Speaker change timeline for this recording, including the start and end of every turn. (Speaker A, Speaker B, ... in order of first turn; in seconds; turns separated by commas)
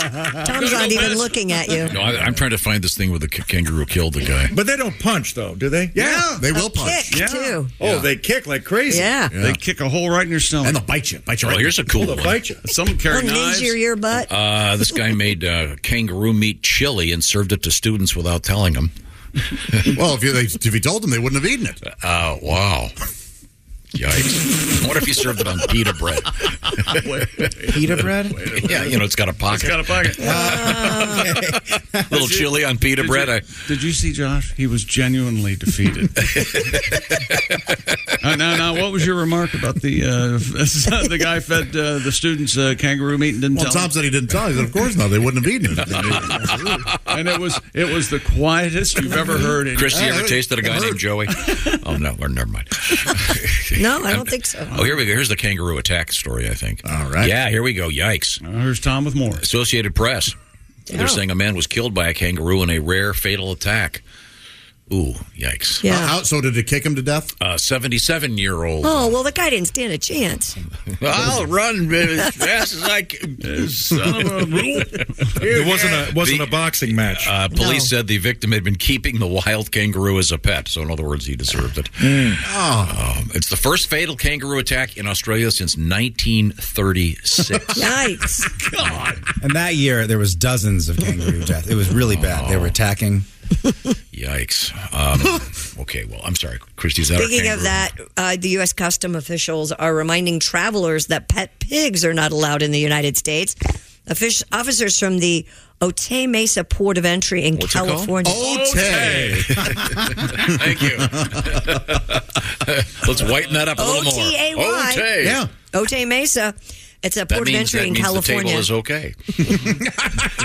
Speaker A: 0.4-2.0, Speaker B: 0.4-1.9, Speaker C: 1.9-4.5, Speaker D: 4.5-6.4, Speaker E: 5.9-7.2, Speaker A: 6.2-7.7, Speaker B: 7.1-7.6, Speaker D: 7.8-9.2, Speaker A: 8.9-9.4, Speaker E: 9.3-9.6, Speaker B: 9.4-10.8, Speaker E: 10.6-11.9, Speaker C: 11.4-12.5, Speaker D: 11.9-12.6, Speaker B: 12.6-13.8, Speaker A: 13.1-14.3, Speaker C: 14.3-18.9, Speaker E: 19.9-21.8, Speaker C: 21.9-22.9, Speaker C: 23.9-27.5, Speaker B: 26.9-31.2, Speaker F: 27.7-28.4, Speaker C: 28.6-30.4, Speaker E: 30.2-30.9, Speaker A: 30.3-31.2, Speaker C: 31.0-31.4, Speaker C: 32.1-33.6, Speaker B: 32.1-36.6, Speaker B: 38.2-44.0, Speaker E: 43.5-46.9, Speaker C: 46.0-46.2, Speaker B: 47.1-50.2, Speaker C: 49.7-58.4, Speaker E: 49.9-51.1, Speaker A: 53.8-55.0, Speaker E: 56.8-57.3, Speaker B: 58.4-59.4, Speaker C: 59.4-60.4, Speaker A: 60.9-61.2, Speaker C: 60.9-64.0, Speaker C: 64.9-65.8, Speaker A: 65.8-66.2, Speaker E: 65.8-67.3, Speaker C: 67.4-69.1, Speaker A: 68.8-70.6, Speaker C: 71.0-74.3, Speaker B: 73.4-75.6, Speaker D: 75.4-77.4, Speaker C: 75.8-87.9, Speaker A: 77.5-77.9, Speaker D: 82.0-82.4, Speaker E: 82.4-83.0, Speaker A: 87.7-88.5, Speaker B: 88.5-89.2, Speaker F: 89.4-93.3, Speaker C: 92.1-92.8, Speaker C: 94.1-97.8, Speaker A: 97.2-108.5, Speaker C: 107.5-108.2, Speaker E: 108.2-111.6, Speaker B: 108.4-109.6, Speaker C: 109.4-115.5, Speaker A: 113.8-118.7, Speaker E: 115.2-115.5, Speaker C: 117.3-119.7